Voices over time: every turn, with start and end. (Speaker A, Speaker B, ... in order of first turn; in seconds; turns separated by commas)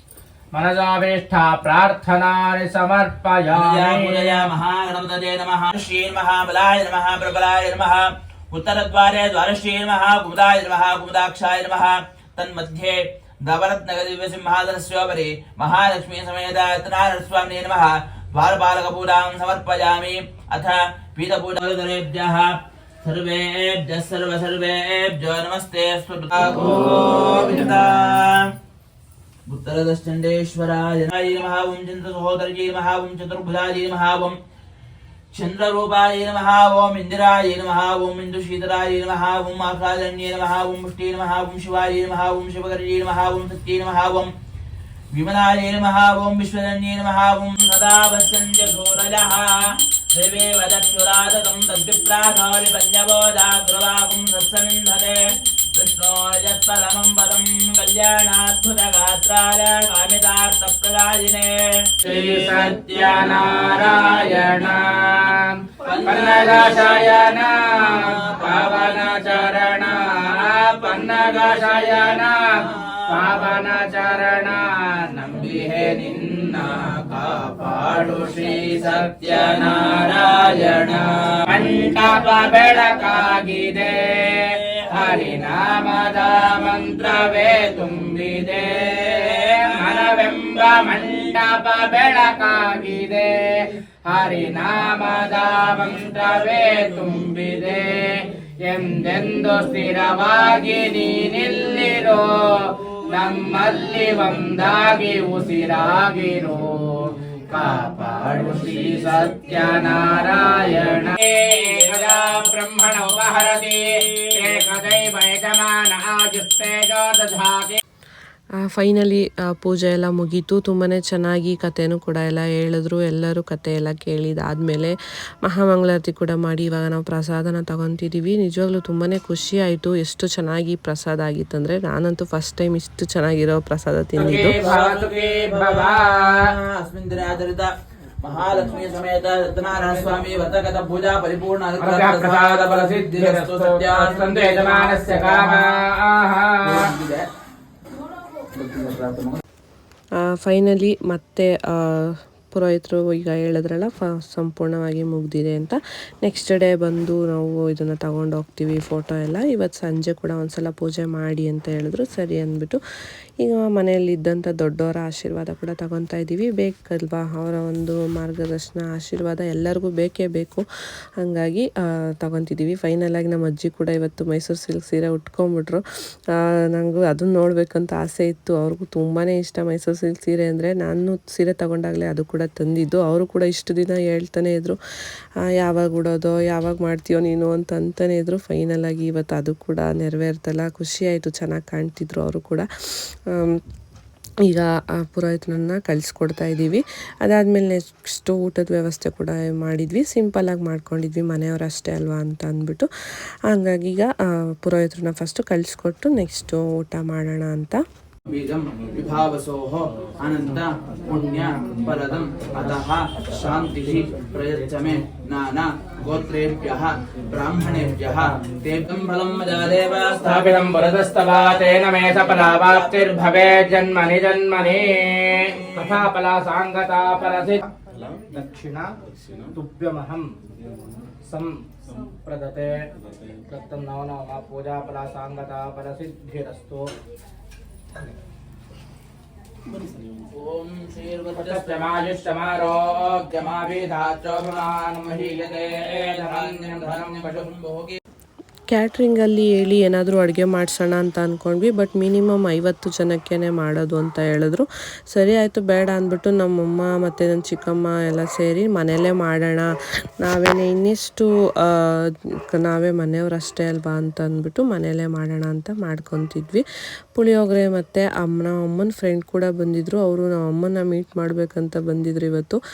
Speaker A: 0.5-4.5, Speaker B: 3.5-28.5, Speaker B: 29.5-34.4, Speaker B: 35.3-44.3, Speaker B: 45.1-63.9, Speaker A: 62.0-117.8, Speaker B: 65.8-67.1, Speaker B: 72.7-73.0, Speaker C: 118.6-134.5, Speaker A: 134.2-136.5, Speaker B: 134.3-145.7, Speaker A: 141.8-146.9, Speaker B: 146.6-147.2, Speaker B: 148.5-149.4, Speaker C: 150.2-162.8, Speaker C: 163.4-170.6, Speaker C: 171.2-184.8, Speaker C: 185.4-193.6, Speaker C: 194.4-202.9, Speaker C: 203.4-207.8, Speaker B: 208.3-223.7, Speaker A: 220.2-227.7, Speaker B: 225.7-226.0, Speaker A: 228.3-228.9, Speaker A: 229.5-230.3, Speaker A: 231.2-232.9, Speaker A: 233.5-236.9, Speaker B: 239.8-242.0, Speaker A: 241.3-247.5, Speaker B: 243.3-248.0, Speaker C: 248.7-272.6